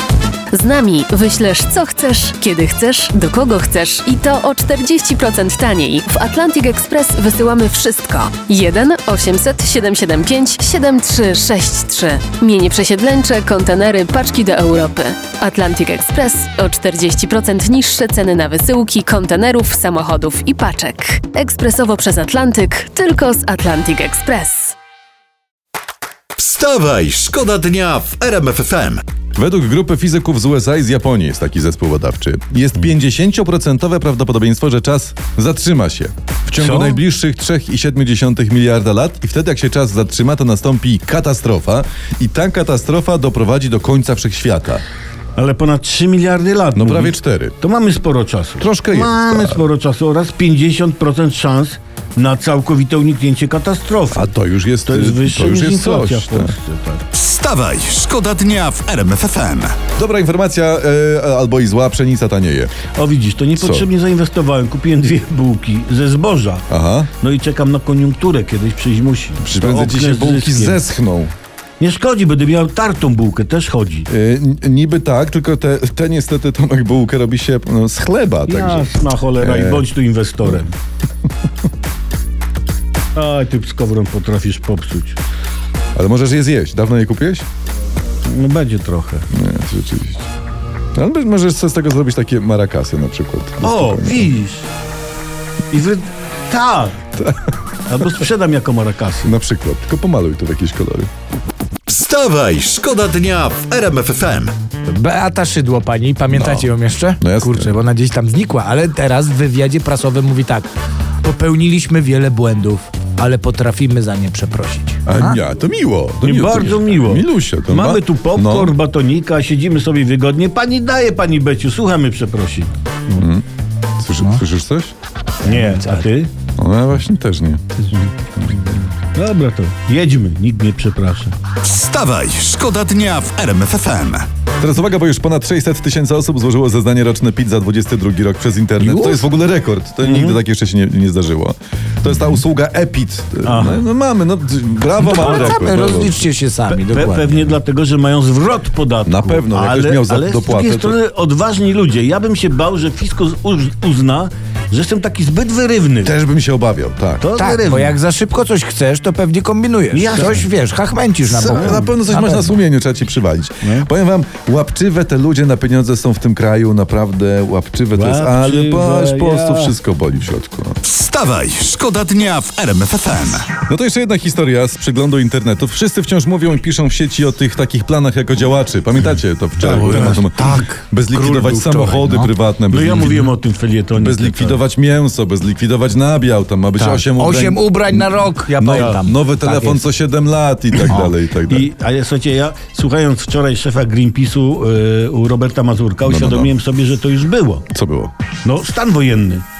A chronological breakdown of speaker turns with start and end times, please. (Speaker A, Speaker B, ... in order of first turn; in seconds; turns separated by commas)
Speaker A: 0.5-24.8, Speaker B: 26.4-29.0, Speaker C: 29.4-44.8, Speaker D: 36.6-37.0, Speaker D: 45.4-54.3, Speaker C: 46.7-47.5, Speaker C: 48.6-49.6, Speaker C: 54.1-56.5, Speaker D: 54.8-57.0, Speaker B: 57.1-59.8, Speaker C: 59.9-62.7, Speaker D: 62.9-70.8, Speaker C: 63.6-63.9, Speaker C: 66.7-67.1, Speaker C: 69.4-71.3, Speaker D: 71.8-74.1, Speaker C: 74.1-79.8, Speaker D: 78.5-80.7, Speaker D: 83.1-85.2, Speaker C: 85.9-87.4, Speaker D: 88.2-89.2, Speaker C: 89.3-90.2, Speaker C: 90.9-94.3, Speaker D: 93.6-94.7, Speaker D: 95.7-97.0, Speaker C: 97.2-97.5, Speaker D: 97.9-99.3, Speaker C: 99.2-101.1, Speaker B: 101.9-104.5, Speaker E: 104.8-110.7, Speaker C: 106.3-107.8, Speaker E: 111.2-115.3, Speaker C: 115.1-118.7, Speaker D: 116.2-123.2, Speaker C: 123.2-123.4, Speaker C: 124.0-124.9, Speaker E: 125.4-126.1, Speaker D: 125.4-126.3, Speaker C: 126.6-127.9, Speaker D: 128.8-131.3, Speaker B: 131.6-134.2, Speaker C: 134.6-146.2, Speaker E: 138.8-139.2, Speaker D: 140.0-140.4, Speaker D: 143.4-143.9, Speaker E: 145.0-147.6, Speaker D: 145.2-145.6, Speaker D: 146.7-156.1, Speaker C: 149.0-150.9, Speaker C: 156.0-157.2, Speaker D: 157.2-158.0, Speaker E: 157.3-162.6, Speaker D: 159.9-160.5, Speaker D: 161.3-161.8, Speaker C: 161.3-170.8, Speaker D: 167.9-169.7, Speaker B: 170.8-173.5, Speaker C: 173.7-183.3, Speaker D: 179.6-180.6, Speaker E: 179.7-182.3, Speaker D: 181.4-181.9, Speaker D: 182.7-184.6, Speaker C: 183.9-191.7, Speaker E: 186.8-189.8, Speaker D: 188.7-189.0, Speaker E: 190.9-191.1, Speaker D: 190.9-197.7, Speaker C: 196.1-196.5, Speaker C: 197.7-198.1, Speaker D: 198.4-199.4